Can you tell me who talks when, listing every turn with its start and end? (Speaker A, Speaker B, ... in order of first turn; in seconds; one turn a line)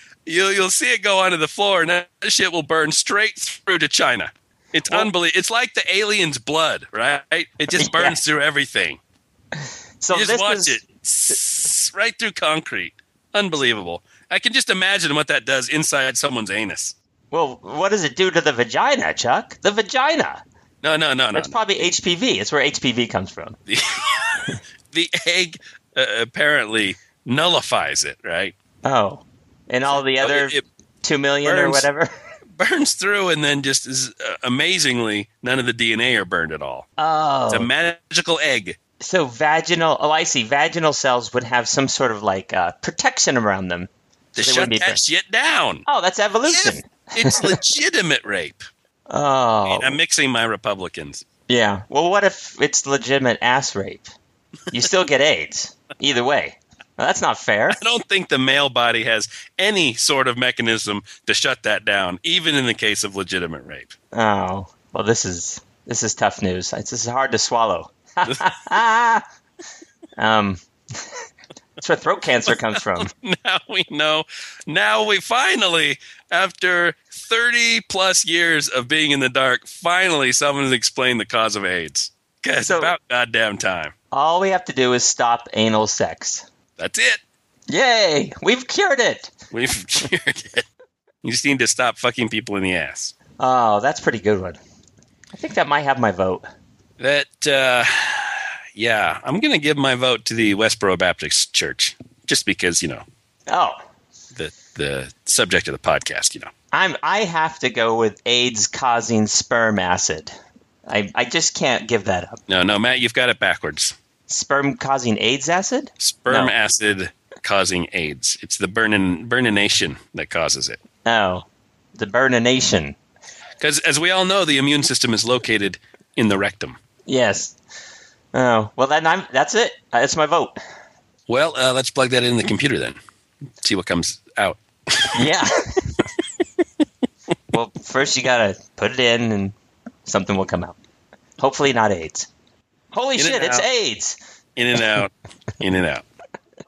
Speaker A: 0.2-9.0
Speaker B: 7.7-8.2
Speaker B: 10.0-10.8
Speaker A: 10.1-16.9
Speaker B: 17.3-20.4
Speaker A: 20.8-21.6
Speaker B: 21.3-23.6
Speaker A: 23.7-28.5
Speaker B: 28.8-32.1
Speaker A: 30.2-30.6
Speaker A: 31.4-31.8
Speaker A: 32.6-36.9
Speaker B: 37.0-37.7
Speaker A: 37.5-38.8
Speaker B: 39.0-45.0
Speaker A: 44.3-45.8
Speaker B: 45.9-47.5
Speaker A: 46.5-48.6
Speaker B: 49.1-50.0
Speaker A: 49.7-51.2
Speaker B: 51.5-54.1
Speaker B: 54.7-57.8
Speaker A: 57.8-63.9
Speaker B: 64.1-69.2
Speaker B: 70.2-71.2
Speaker B: 71.8-73.1
Speaker A: 72.8-83.9
Speaker B: 82.6-82.9
Speaker B: 84.1-86.5
Speaker A: 86.8-87.2
Speaker B: 87.7-89.3
Speaker A: 89.5-90.6
Speaker A: 91.2-93.1
Speaker B: 93.4-94.6
Speaker B: 95.3-96.5
Speaker A: 97.0-103.0
Speaker B: 103.5-103.8
Speaker A: 104.3-106.5
Speaker B: 106.7-110.3
Speaker B: 110.9-112.4
Speaker A: 112.5-113.9
Speaker B: 114.3-116.5
Speaker A: 116.0-120.8
Speaker B: 121.0-123.0
Speaker A: 123.6-126.8
Speaker B: 127.1-127.5
Speaker B: 128.3-130.5
Speaker A: 131.3-133.0
Speaker A: 133.6-135.2
Speaker B: 135.1-135.8
Speaker B: 137.5-139.5
Speaker B: 140.1-140.8
Speaker B: 141.4-142.3
Speaker B: 142.9-144.2
Speaker A: 143.2-143.7
Speaker A: 144.6-146.0